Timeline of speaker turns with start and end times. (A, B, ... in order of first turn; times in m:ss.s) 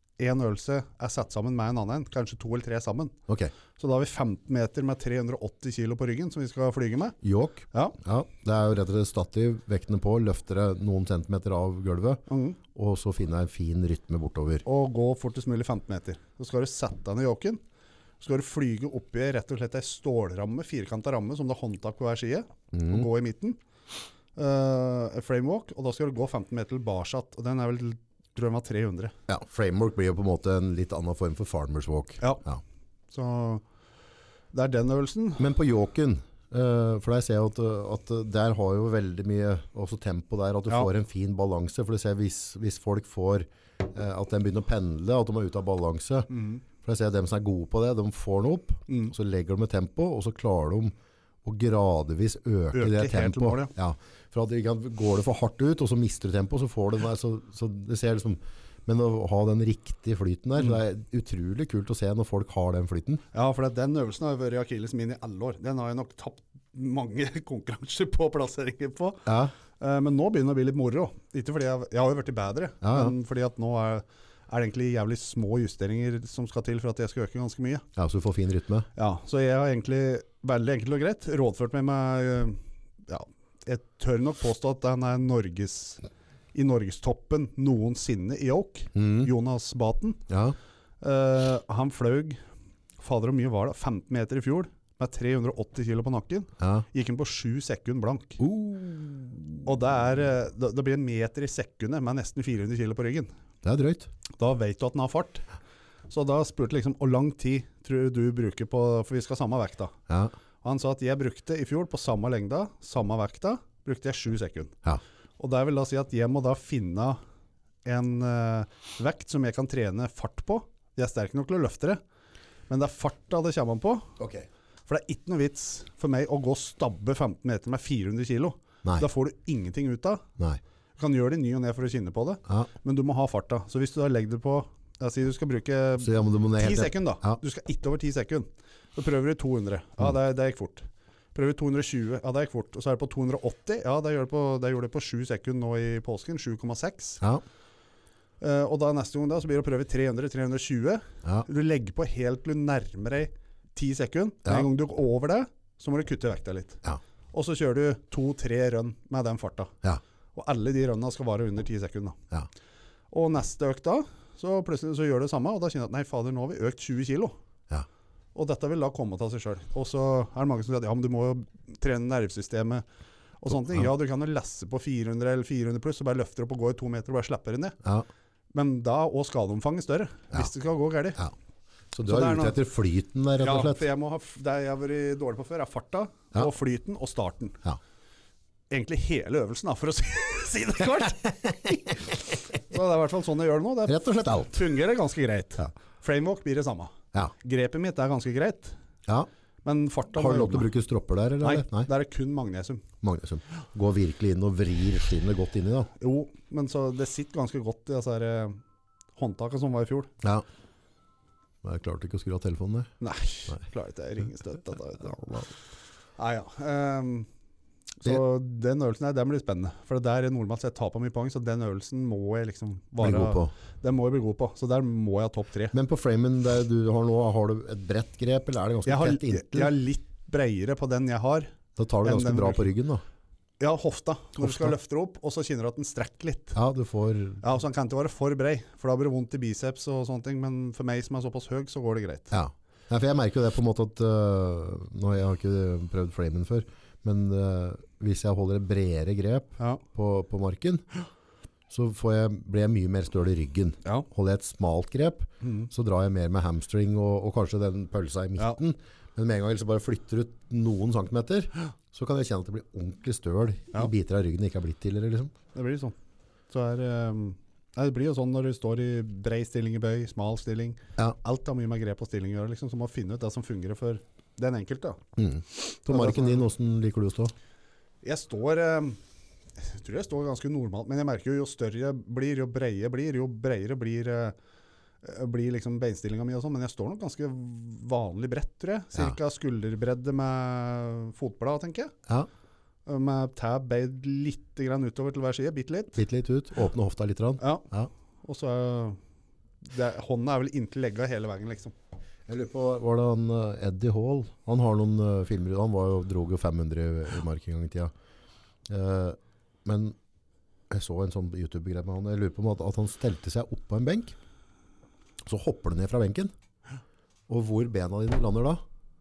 0:00.2-0:03.2 A
0:03.8-0:07.2 A
0:07.2-0:12.2 B
0:07.7-0:08.0 A
0:12.3-0:12.6 A
0:12.7-0:14.6 B
0:14.6-0:17.6 A
0:18.2-0:23.6 A
0:22.7-0:23.1 B
0:24.4-0:29.1 A
0:29.3-0:32.6 B
0:33.1-0:33.6 A
0:34.5-0:35.5 A
0:35.4-0:46.3 B
0:46.3-0:46.6 A
0:46.8-0:50.9 B
0:51.4-1:03.2 B
0:52.7-0:53.7 A
1:03.3-1:17.8 A
1:09.3-1:09.5 B
1:12.8-1:13.2 B
1:18.0-1:18.9 B
1:19.0-1:26.0 A
1:26.5-1:30.2 A
1:29.0-1:29.3 B
1:30.3-1:30.6 B
1:31.0-1:32.4 A
1:33.0-1:38.4 A
1:36.6-1:36.9 B
1:38.4-1:39.6 B
1:39.6-1:43.3 A
1:43.6-1:44.1 B
1:44.4-1:45.4 A
1:46.1-1:50.0 A
1:50.6-1:54.8 A
1:55.4-1:57.2 A
1:57.9-2:02.0 A
2:02.7-2:04.1 A
2:04.2-2:04.5 B
2:04.9-2:10.3 A
2:11.0-2:27.2 A
2:16.0-2:17.4 B
2:28.4-2:39.8 A
2:40.3-2:42.2 A
2:43.1-2:47.3 A
2:48.4-2:52.8 A
2:53.4-2:57.8 A
2:58.5-3:01.2 A
3:01.9-3:03.8 B
3:02.0-3:02.6 A
3:03.4-3:07.6 A
3:08.7-3:18.8 A
3:13.9-3:14.6 B
3:19.6-3:20.7 A
3:20.2-3:21.9 B
3:21.4-3:22.9 A
3:23.0-3:25.9 B
3:26.0-3:28.6 A
3:29.2-3:30.1 A
3:31.6-3:32.9 B
3:33.0-3:35.5 A
3:35.2-3:35.5 B
3:36.2-3:37.3 A
3:38.0-3:45.8 A
3:43.0-3:43.5 B
3:45.7-3:49.8 B
3:48.9-3:51.5 A
3:51.8-3:53.0 B
3:52.0-3:52.7 A
3:53.6-3:56.6 A
3:54.4-3:54.7 B
3:56.6-3:57.4 B
3:57.4-4:02.4 A
4:02.3-4:10.8 B
4:11.7-4:25.3 B
4:15.4-4:15.7 A
4:25.6-4:26.0 A
4:26.5-4:35.0 A
4:35.2-4:37.3 B
4:35.9-4:36.5 A
4:38.0-4:39.0 A
4:39.6-4:44.4 A
4:45.0-4:51.9 A
4:52.9-4:56.0 A
4:56.0-4:57.9 B
4:57.4-4:57.7 A
4:58.2-4:59.0 A
4:59.6-5:01.7 A
5:02.3-5:07.9 B
5:08.7-5:10.0 B
5:10.7-5:14.2 B
5:15.2-5:16.3 B
5:17.3-5:18.6 B